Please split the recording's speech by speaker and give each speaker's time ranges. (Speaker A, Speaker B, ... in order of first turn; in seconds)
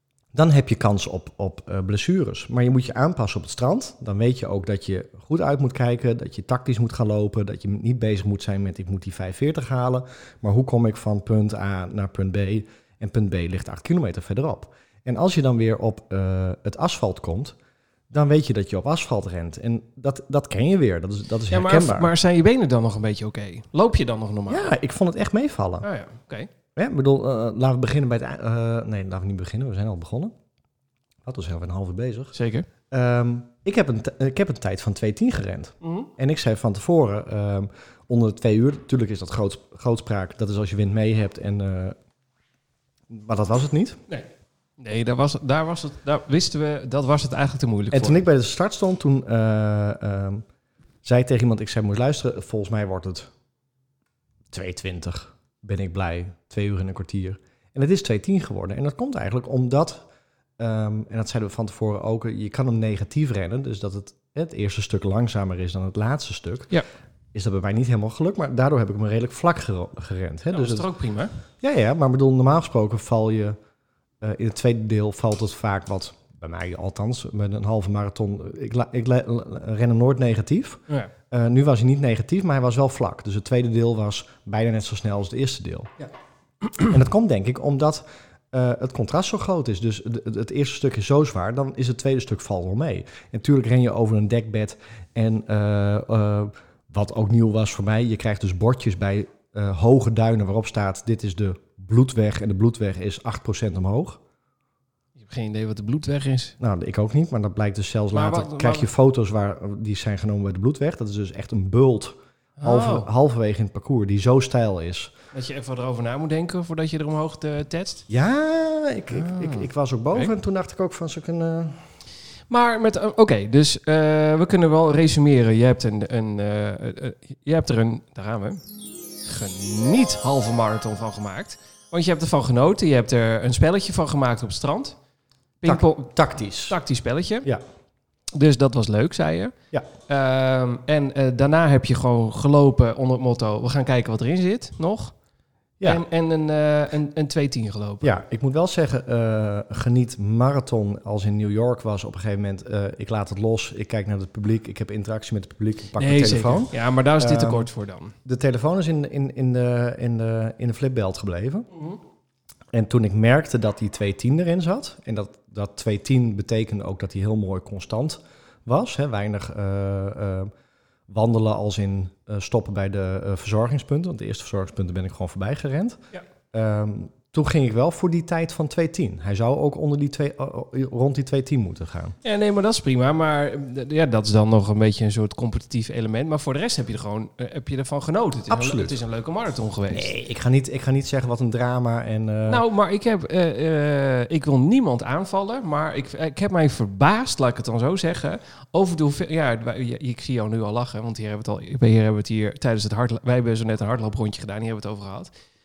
Speaker A: 0.3-17.5, 18.1-22.1, 24.5-25.9, 26.8-30.3, 31.2-32.3, 32.9-42.0, 43.1-44.0, 47.9-50.4, 51.0-53.3, 54.5-60.0, 60.6-66.7, 67.3-70.9, 71.6-73.5, 74.2-85.9, 86.8-104.2, 106.6-115.1, 118.1-121.8, 135.6-136.8, 148.0-157.7, 158.2-161.7, 162.7-170.5, 171.1-176.0, 176.5-182.2, 188.5-189.0, 189.9-192.6
Speaker B: 21.5-24.7, 25.8-26.5, 32.3-32.6, 35.8-36.1, 44.8-48.2, 70.5-71.3, 105.2-106.5, 108.1-108.9, 112.6-113.1, 115.3-118.0, 119.1-120.3, 122.5-128.6, 129.2-134.9, 135.6-136.1, 136.7-137.5, 138.3-139.5, 140.1-145.1, 145.8-148.1, 156.0-158.1, 182.2-190.1, 192.5-205.3